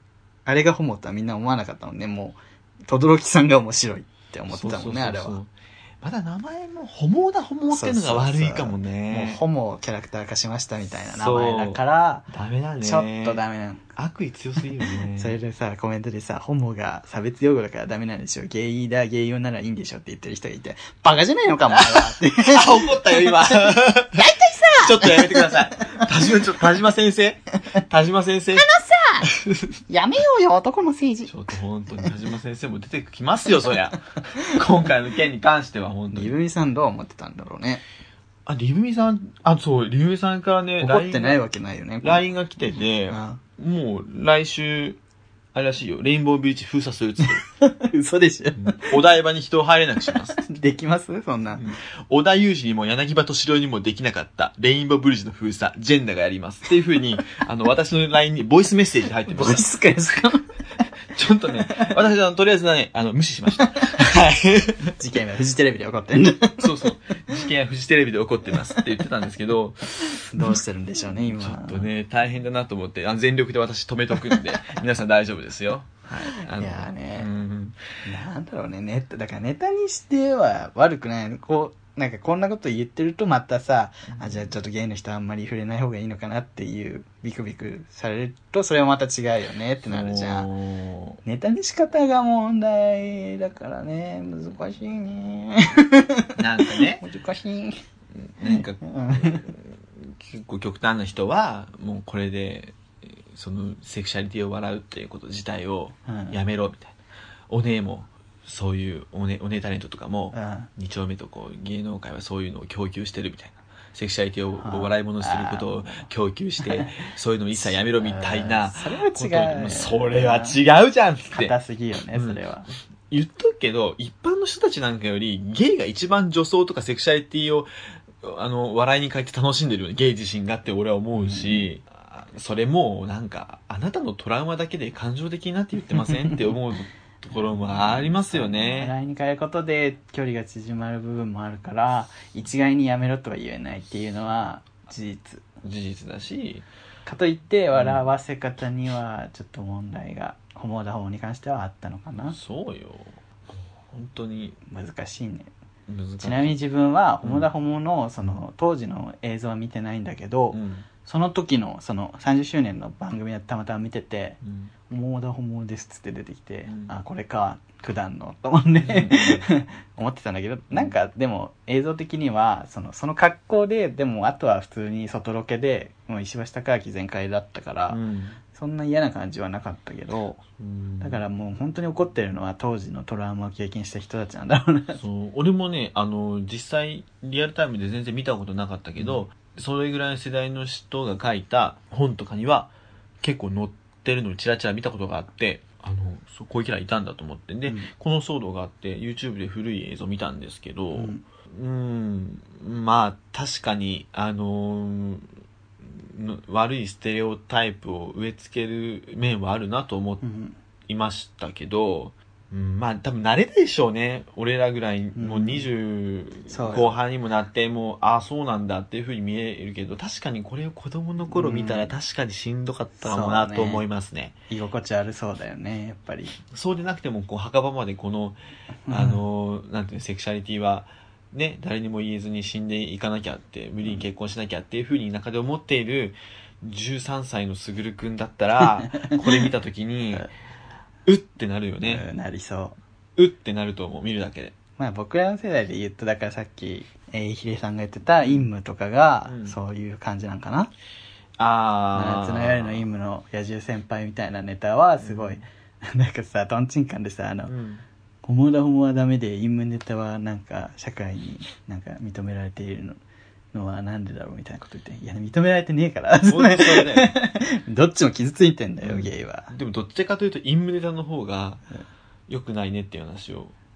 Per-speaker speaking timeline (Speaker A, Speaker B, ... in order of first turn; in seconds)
Speaker A: 0.5-5.4, 7.7-12.3, 12.8-13.8, 15.1-26.1, 28.6-29.3, 29.9-31.3, 36.1-37.8, 40.8-42.2, 43.1-43.4, 47.4-49.0, 50.4-51.6, 59.3-60.5, 65.0-66.9, 68.5-68.8, 70.3-71.9, 76.1-77.3, 78.0-90.5, 91.2-97.8, 98.5-99.5, 106.1-106.4, 110.3-110.7, 114.6-116.0, 116.6-116.9, 117.6-120.6, 121.3-122.7, 131.2-131.7, 136.0-136.4, 137.4-145.4, 147.1-152.4, 154.7-155.5, 156.2-178.0, 178.5-180.4, 181.0-185.0, 200.9-201.2, 210.2-210.6, 215.2-215.7, 216.5-217.0, 221.3-221.9, 223.0-223.8, 224.5-226.4, 228.9-229.2, 241.8-242.8, 244.8-250.7, 251.9-257.5, 258.2-263.0, 263.5-269.5
Speaker B: 4.5-5.5, 6.0-9.4, 11.1-13.4, 14.0-15.4, 21.7-28.7, 29.3-29.7, 31.3-36.3, 38.5-41.4, 42.0-45.0, 45.5-47.4, 48.6-50.4, 51.5-59.7, 61.1-65.0, 66.6-77.8, 84.1-84.4, 89.8-91.2, 96.4-97.0, 98.2-106.9, 107.5-121.5, 122.1-122.4, 123.1-127.7, 128.2-138.9, 145.6-146.7, 147.7-148.1, 152.3-154.6, 155.9-156.6, 157.2-157.5, 160.5-160.9, 164.4-164.7, 166.7-166.9, 168.8-169.5, 177.9-178.4, 180.6-181.2, 185.0-205.3, 205.9-210.2, 210.9-224.3, 226.5-228.4, 228.9-240.3, 241.1-242.1, 243.2-244.6, 248.2-248.5, 249.3-249.6, 251.4-252.9, 255.0-255.4, 257.5-257.8, 266.3-267.1, 268.8-271.6, 272.3-273.5